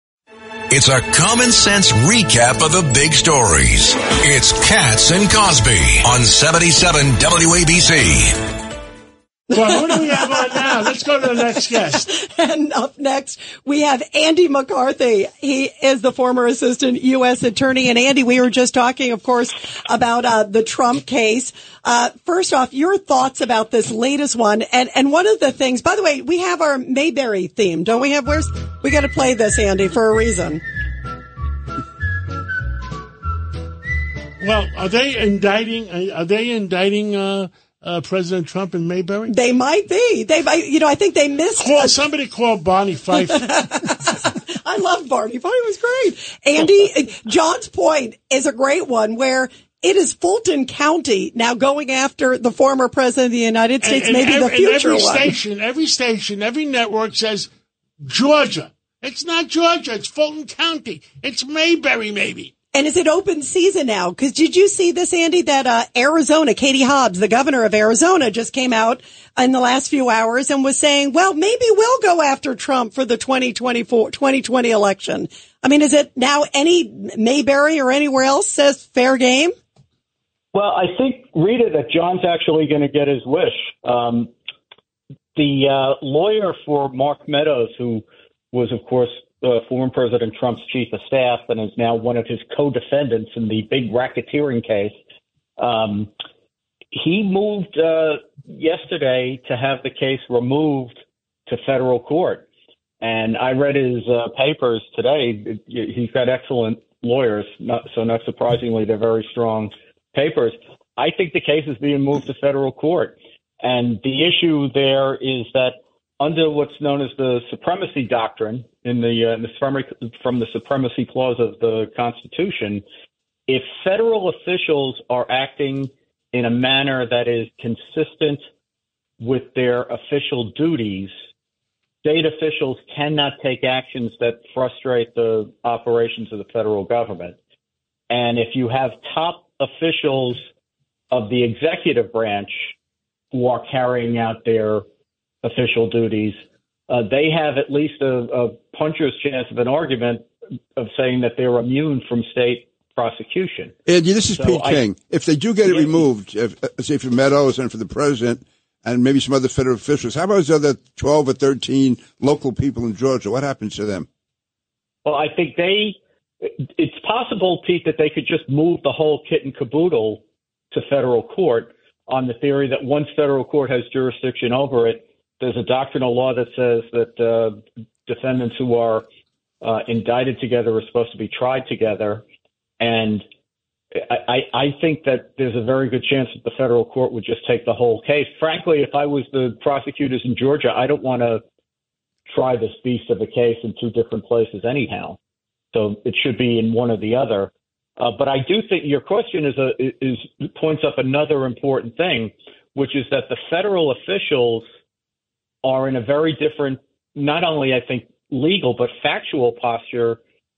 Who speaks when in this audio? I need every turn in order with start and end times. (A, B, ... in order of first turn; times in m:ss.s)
0:00.7-0:08.4 A
0:09.5-0:10.8 B
0:09.5-0:12.1 C
0:11.4-0:30.6 B
0:34.4-0:39.3 C
0:39.3-0:42.0 B
0:41.6-0:43.5 C
0:43.1-0:55.3 B
0:53.8-0:57.5 C
0:58.0-1:02.5 C
1:02.7-1:19.5 B
1:20.5-1:24.3 D
1:25.4-1:35.0 D
1:35.6-1:36.1 D
1:36.9-1:42.5 D
1:43.0-2:02.8 D
2:03.5-2:08.4 D
2:09.2-2:11.1 D
2:12.0-2:17.4 D
2:18.1-2:20.4 D
2:21.1-2:22.7 D
2:23.3-2:24.8 D
2:25.4-2:33.8 D
2:33.9-2:44.1 E
2:34.3-2:34.8 D
2:35.6-2:36.1 D
2:45.0-2:59.1 D
2:59.6-3:02.2 D
3:02.8-3:03.2 D
3:04.0-3:11.4 D
3:12.3-3:15.2 D
3:15.7-3:24.6 D
3:25.6-3:30.2 D